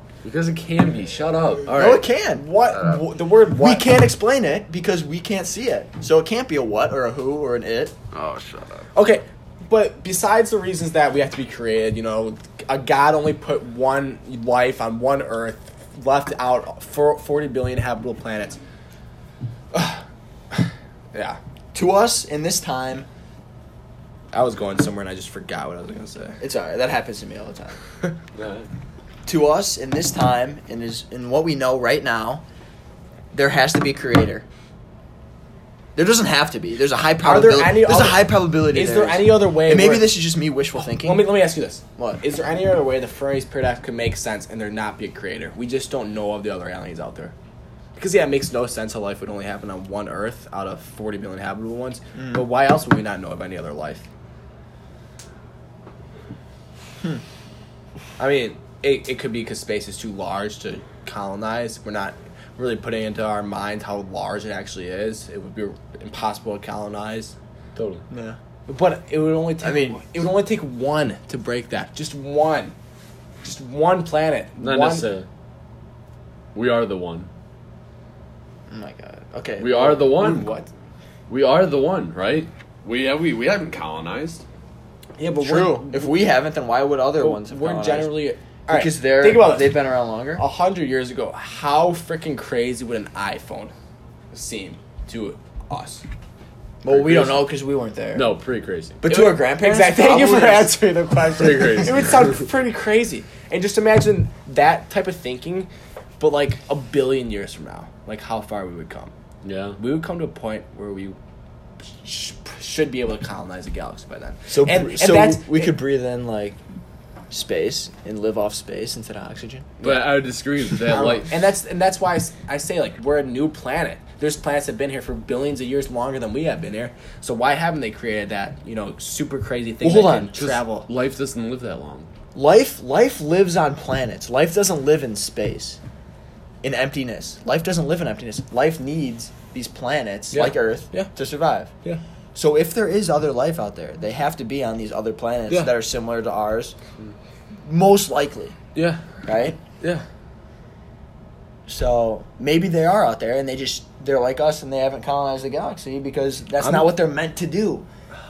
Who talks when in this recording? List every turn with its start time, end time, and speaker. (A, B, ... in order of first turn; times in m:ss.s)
0:00.2-0:02.0 A
0:01.7-0:02.4 B
0:02.4-0:03.9 C
0:03.6-0:08.0 B
0:08.1-0:08.8 A
0:08.9-0:18.6 C
0:19.7-0:21.4 C
0:21.7-0:23.1 B
0:24.3-0:26.4 C
0:26.4-0:27.8 B
0:28.4-0:28.7 A
0:29.3-0:32.4 B
0:33.3-0:34.4 B
0:36.0-0:41.4 B
0:37.2-0:40.1 C
0:41.0-0:47.3 C
0:48.0-0:54.1 C
0:52.2-0:52.4 B
0:58.2-1:07.4 C
1:07.8-1:08.0 A
1:08.1-1:08.4 B
1:08.7-1:12.8 C
1:09.6-1:10.1 B
1:13.4-1:15.1 C
1:14.6-1:15.3 A
1:16.6-1:17.3 A
1:18.7-1:20.0 B
1:19.6-1:20.5 A
1:19.7-1:20.7 C
1:21.3-1:24.4 A
1:25.2-1:26.2 C
1:25.4-1:30.4 B
1:27.2-1:29.8 C
1:30.4-1:33.7 C
1:34.3-1:36.0 C
1:36.8-1:38.3 B
1:36.9-1:37.4 A
1:38.1-1:39.0 A
1:39.0-1:40.8 B
1:39.1-1:49.1 C
1:41.4-1:42.5 A
1:49.4-1:49.8 A
1:49.8-1:51.2 C
1:51.9-1:55.7 C
1:54.5-1:56.6 B
1:57.3-1:59.8 B
1:59.8-2:01.5 A
1:59.8-2:00.2 C
2:00.9-2:10.9 C
2:09.8-2:10.6 B
2:10.9-2:12.1 A
2:12.4-2:15.8 B
2:16.6-2:21.7 B
2:20.3-2:21.1 C
2:22.3-2:26.8 B
2:27.6-2:28.6 B
2:28.8-2:29.0 C
2:29.3-2:29.6 B
2:29.7-2:30.0 C
2:31.7-2:37.9 B
2:36.6-2:37.0 C